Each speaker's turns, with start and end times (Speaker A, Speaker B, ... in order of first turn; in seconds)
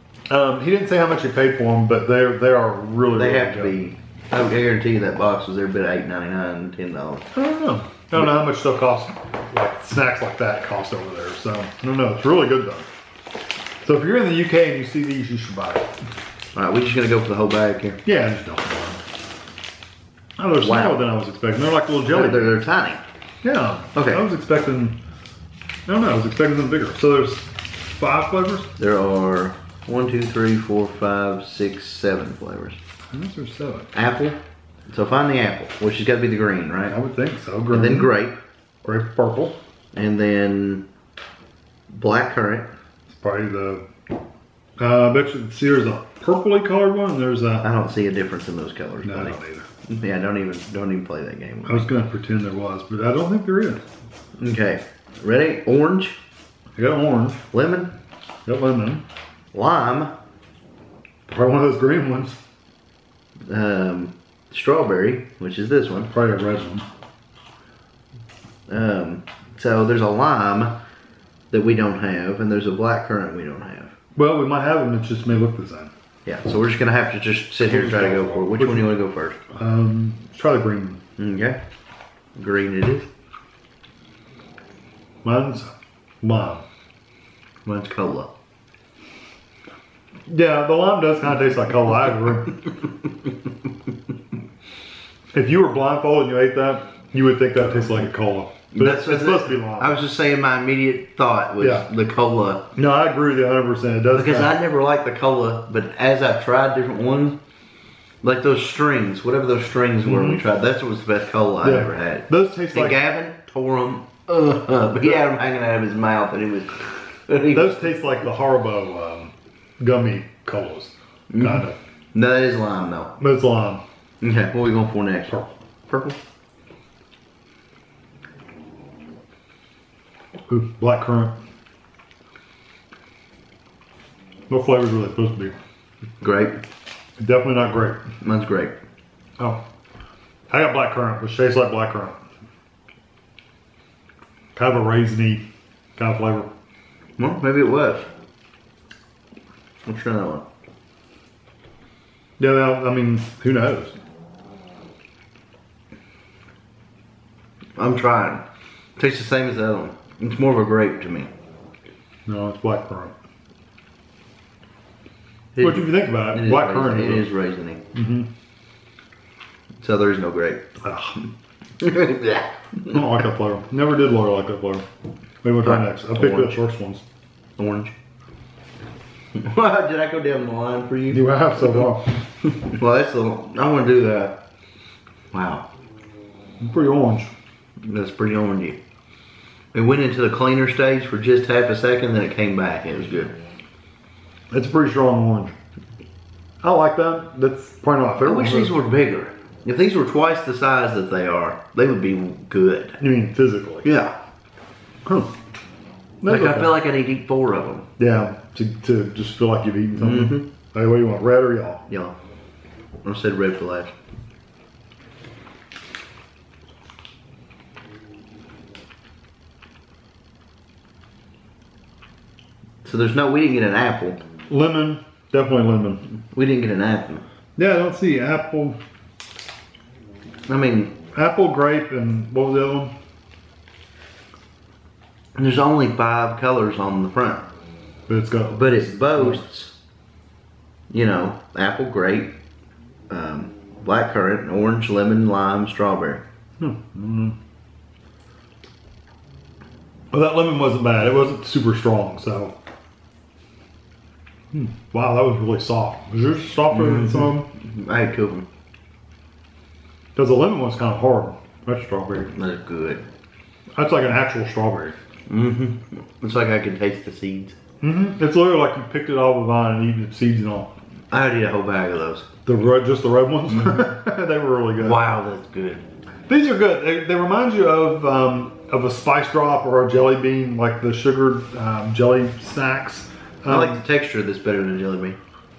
Speaker A: 0.3-3.8, 7.3-12.9, 13.8-15.9, 18.1-19.0, 20.4-22.6, 23.4-25.0, 25.9-28.7, 33.1-33.9, 36.9-38.1, 38.8-39.5, 43.1-43.9, 44.8-47.7, 49.0-49.7, 51.6-53.9, 56.8-57.4, 58.5-59.0, 61.3-62.4, 66.1-66.9, 74.2-75.9, 77.6-78.9, 79.5-81.0, 85.2-86.6, 90.3-92.6, 95.3-100.0, 101.6-101.9, 102.8-104.5, 110.0-110.4, 111.6-113.0, 115.0-115.2, 117.5-121.8, 123.2-123.8, 130.5-131.3, 134.5-135.6, 137.2-138.0, 140.5-142.2, 144.6-145.5, 146.0-146.5, 152.4-154.0, 162.3-163.2, 165.6-167.3, 167.9-168.3, 170.8-171.2, 172.9-174.8, 175.4-177.0, 181.1-182.1, 186.6-187.3, 194.5-195.6, 196.6-198.7, 203.0-203.9, 205.1-205.3, 206.2-206.7, 208.0-211.8, 224.5-226.0, 227.6-228.8, 231.1-232.9, 238.1-239.4, 246.6-247.4, 250.1-252.5, 254.5-257.5, 260.1-262.3, 263.8-265.0, 267.8-270.7, 272.5-275.0, 276.3-283.8
Speaker B: 3.1-7.2, 16.6-18.0, 20.6-21.0, 22.1-23.0, 23.9-24.2, 28.8-32.8, 33.9-37.0, 37.7-38.4, 39.9-40.8, 41.9-42.7, 47.6-51.9, 54.4-56.2, 57.5-57.9, 59.5-60.1, 63.5-66.1, 68.7-70.8, 71.5-73.9, 76.3-79.4, 81.2-81.6, 82.4-83.1, 87.7-88.3, 98.7-102.6, 104.1-107.4, 108.2-117.8, 121.3-123.1, 124.2-125.3, 125.9-126.2, 136.2-136.6, 138.2-138.8, 147.2-148.1, 149.8-150.4, 157.8-158.4, 159.0-161.3, 165.5-167.8, 169.8-170.6, 171.8-172.8, 175.6-176.6, 177.6-177.9, 179.3-181.8, 182.6-184.3, 185.3-185.7, 187.9-188.8, 189.7-193.4, 198.2-203.0, 203.8-204.2, 206.3-207.9, 210.0-210.4, 211.9-212.2, 213.0-213.9, 222.8-224.2, 226.3-227.2, 230.5-230.9, 235.4-237.5, 238.5-239.7, 240.9-242.3, 243.1-246.2, 256.7-258.5, 262.4-263.0, 265.3-267.6, 271.1-272.3, 273.5-273.8, 274.8-275.8, 283.5-285.2